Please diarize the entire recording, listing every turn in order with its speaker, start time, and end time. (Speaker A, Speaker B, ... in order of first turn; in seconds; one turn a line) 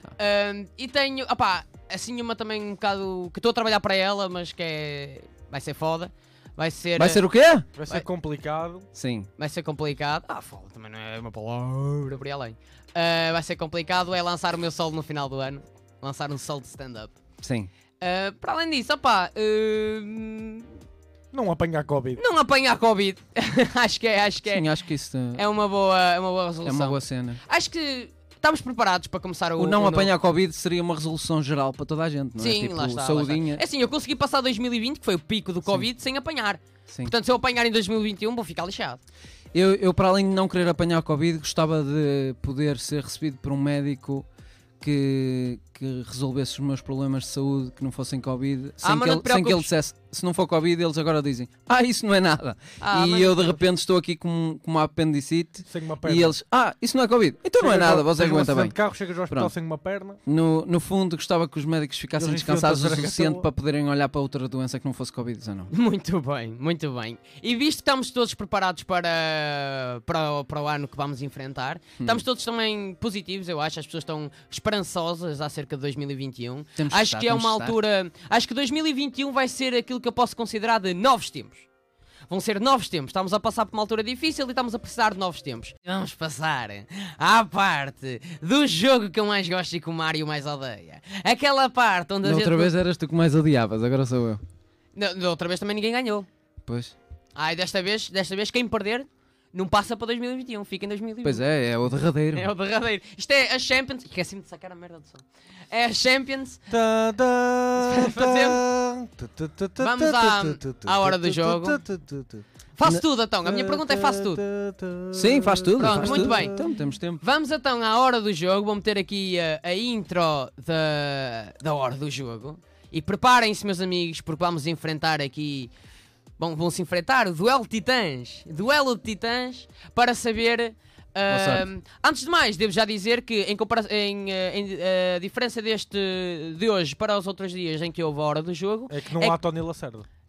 Speaker A: 0.2-7.2
Speaker B: 7.0-7.7
Speaker C: 7.8-8.9
Speaker B: 8.9-9.3
Speaker A: 9.4-17.1
Speaker B: 17.4-17.7
Speaker A: 18.0-20.8
Speaker C: 21.3-22.2
Speaker A: 22.2-24.7
Speaker B: 24.5-25.4
Speaker A: 25.3-30.1
Speaker B: 26.6-27.4
Speaker B: 29.6-33.6
Speaker A: 32.4-39.0
Speaker B: 35.6-35.9
Speaker B: 36.9-37.1
Speaker B: 39.5-44.3
Speaker B: 44.8-58.8
Speaker A: 48.8-49.7
Speaker A: 52.8-53.6
Speaker C: 55.7-56.4
Speaker C: 57.6-60.2
Speaker B: 59.3-59.5
Speaker B: 60.2-65.7
Speaker C: 62.2-63.5
Speaker A: 65.7-81.7
Speaker B: 76.8-77.8
Speaker A: 82.3-92.7
Speaker B: 92.2-94.4
Speaker A: 95.0-96.3
Speaker B: 96.7-97.0
Speaker A: 97.3-101.5
Speaker B: 101.2-102.5
Speaker A: 102.3-106.6
Speaker C: 106.7-112.5
Speaker A: 107.8-108.6
Speaker A: 109.8-111.8
Speaker A: 112.8-114.4
Speaker C: 113.4-116.7
Speaker B: 115.1-117.2
Speaker A: 115.8-116.6
Speaker A: 117.2-125.7
Speaker A: 126.4-139.4
Speaker B: 131.3-131.7
Speaker C: 138.9-140.1